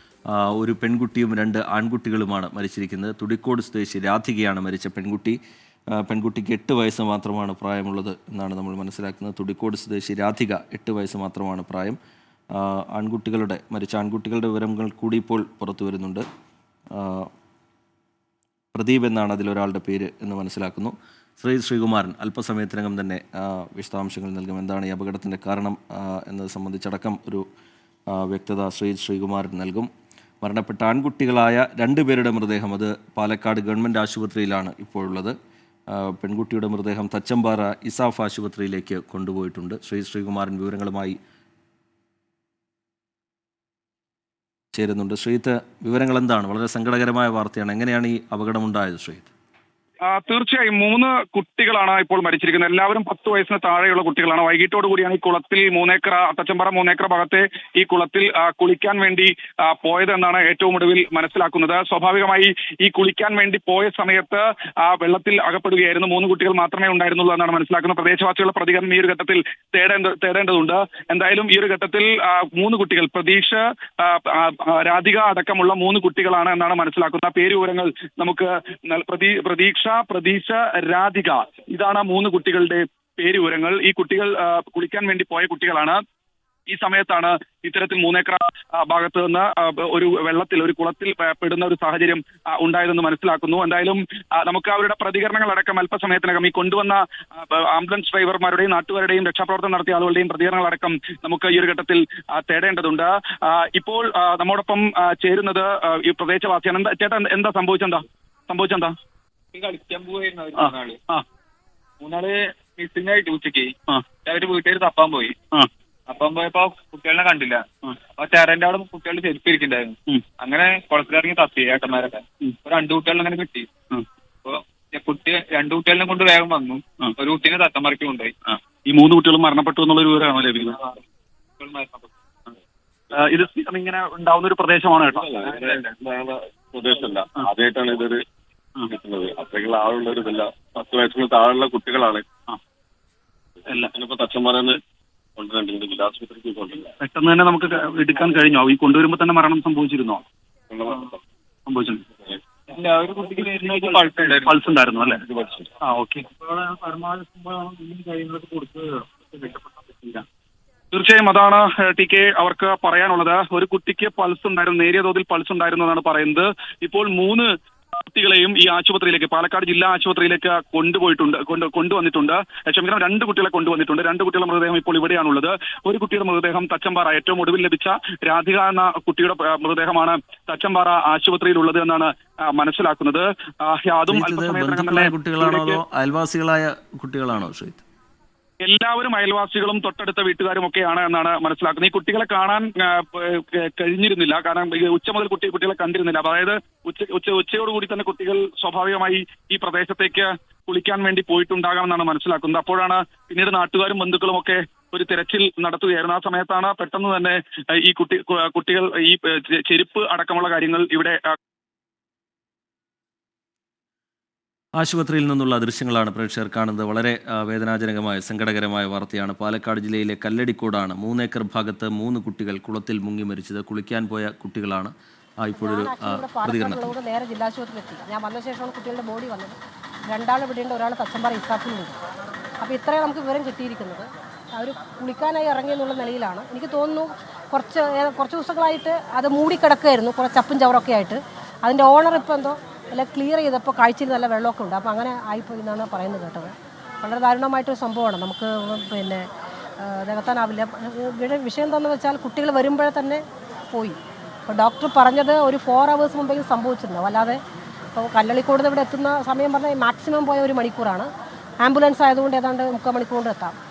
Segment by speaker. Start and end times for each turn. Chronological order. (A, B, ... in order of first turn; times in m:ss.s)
0:00.3-0:05.4 A
0:06.0-0:12.0 A
0:12.5-0:16.2 A
0:16.9-0:17.3 A
0:18.7-0:27.4 A
0:28.1-0:29.9 A
0:30.4-0:35.4 A
0:35.9-0:41.2 A
0:44.7-0:49.3 A
0:50.0-1:26.0 B
1:26.7-1:48.9 B
1:49.5-1:51.0 C
1:50.6-1:51.2 B
1:52.0-1:55.4 C
1:56.1-2:03.7 C
2:04.4-2:08.3 C
2:08.5-2:10.8 B
2:11.6-2:12.1 C
2:13.1-2:15.3 B
2:15.2-2:18.2 D
2:18.9-2:22.2 D
2:23.7-2:24.8 D
2:25.4-2:26.9 D
2:27.0-2:30.2 B
2:30.7-2:31.1 D
2:31.7-2:32.0 B
2:32.7-2:34.6 C
2:33.3-2:35.2 B
2:35.4-2:35.6 D
2:35.8-2:40.2 B
2:40.9-3:05.8 B
3:04.1-3:07.8 A
3:08.6-3:31.2 B
3:34.8-3:47.0 A
3:45.6-3:49.6 E
3:50.1-3:52.0 E
3:52.6-4:09.2 E
4:09.8-4:17.4 E
4:17.9-4:21.1 E
4:21.6-4:23.6 E